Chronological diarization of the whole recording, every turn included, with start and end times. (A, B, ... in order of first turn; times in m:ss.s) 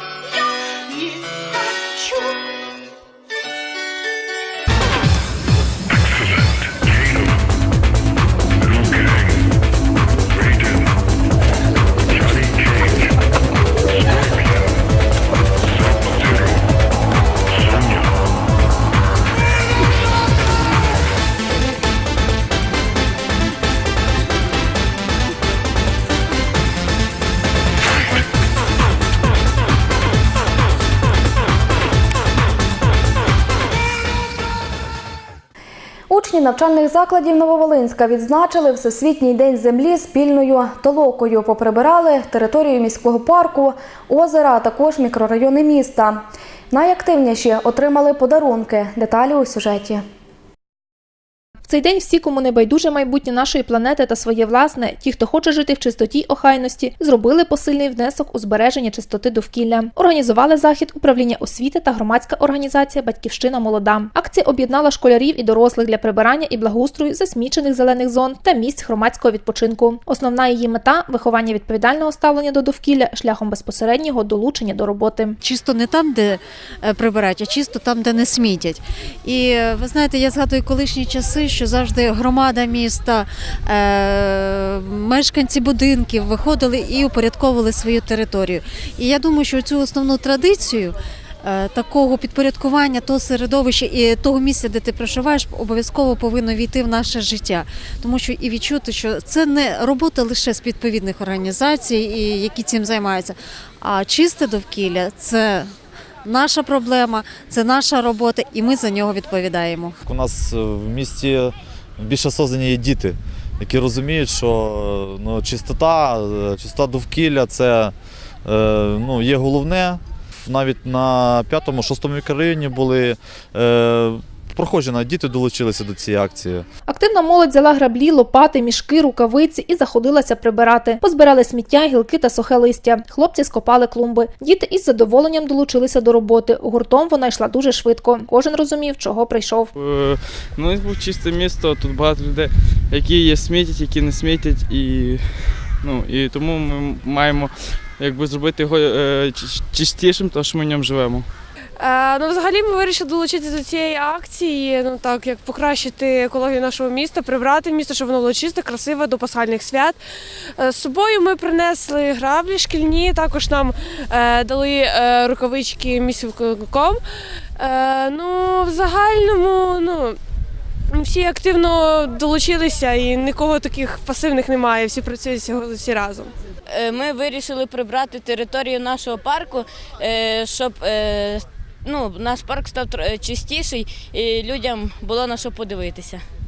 0:36.1-0:50.0 A
0:51.7-1:15.4 B
1:15.4-1:45.7 C
1:46.2-1:50.0 C
1:50.0-1:57.9 D
1:58.4-2:06.6 D
2:06.9-2:19.7 B
2:19.7-2:31.3 E
2:31.8-2:40.0 F
2:40.6-2:47.0 F
2:47.6-2:50.2 F
2:50.9-2:56.3 F
2:56.7-3:06.2 G